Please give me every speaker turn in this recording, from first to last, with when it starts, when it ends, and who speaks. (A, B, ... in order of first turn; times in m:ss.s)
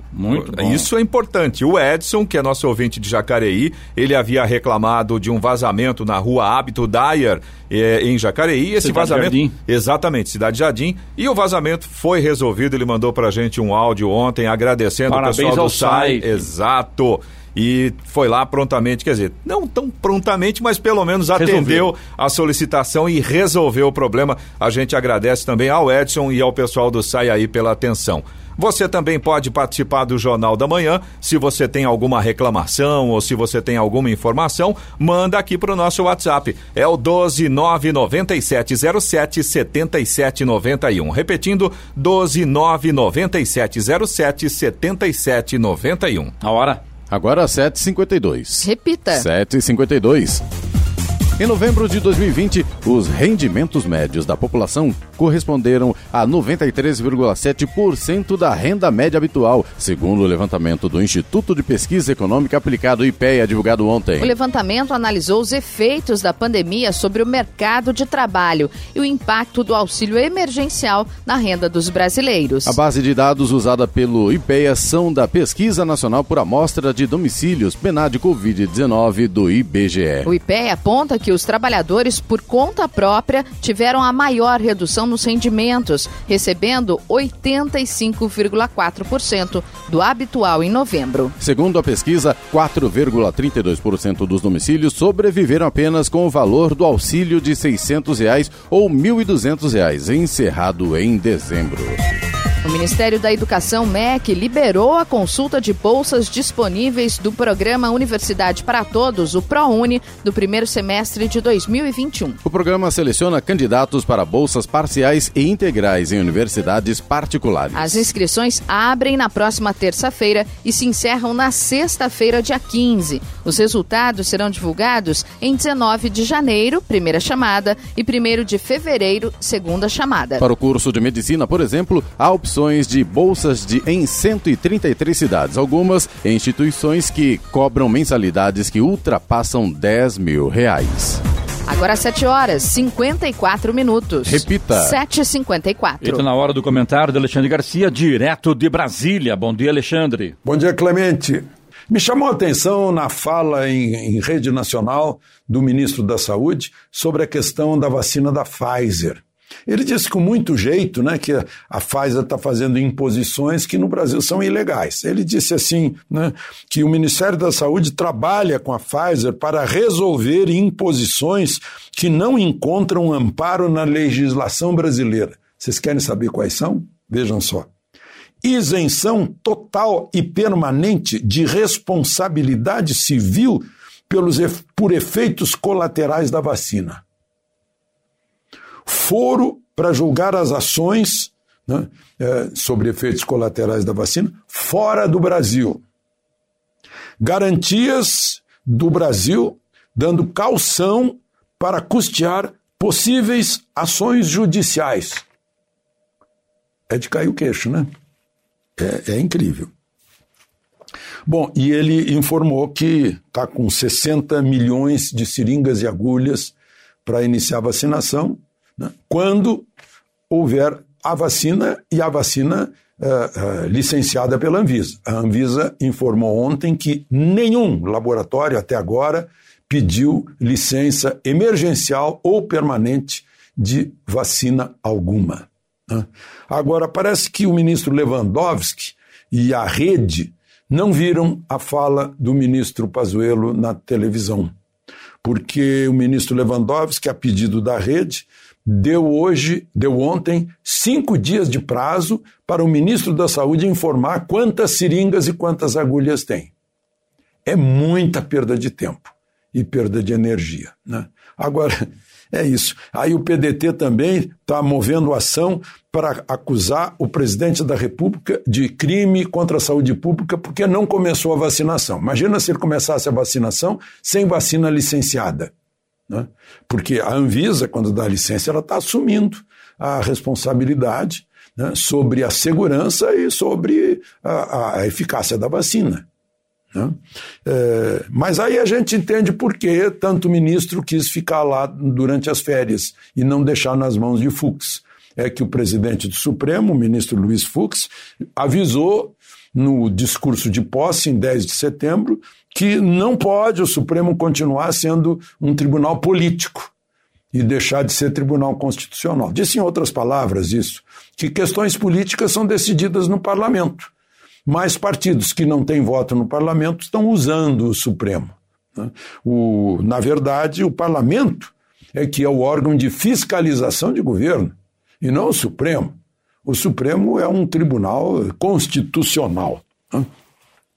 0:00.1-0:00.9 A
0:00.3-0:46.3 B
0:08.8-0:09.5 A
0:15.1-0:16.4 A
0:21.3-0:21.9 A
0:46.4-0:46.8 A
0:47.1-0:50.4 C
0:48.6-0:49.2 D
0:51.4-1:04.3 C
1:04.2-1:12.8 D
1:12.6-1:20.3 C
1:20.2-1:31.3 D
1:31.4-1:42.0 C
1:42.6-1:52.4 D
1:52.4-1:58.1 C
1:57.7-2:10.4 D
2:10.4-2:21.2 C
2:21.7-2:26.2 D
2:24.2-2:25.0 C
2:26.0-2:30.3 A
2:30.4-2:57.7 E
2:58.4-3:07.0 E
3:08.8-3:15.8 E
3:17.2-3:25.2 E
3:26.9-3:27.9 E
3:28.8-3:29.7 E
3:31.2-3:36.5 E
3:37.0-3:39.7 E
3:40.3-4:04.5 E
4:05.2-4:16.5 E
4:17.4-4:35.5 E
4:36.1-4:46.0 E
4:46.7-5:06.7 E
5:07.3-5:13.9 E
5:14.4-5:30.1 E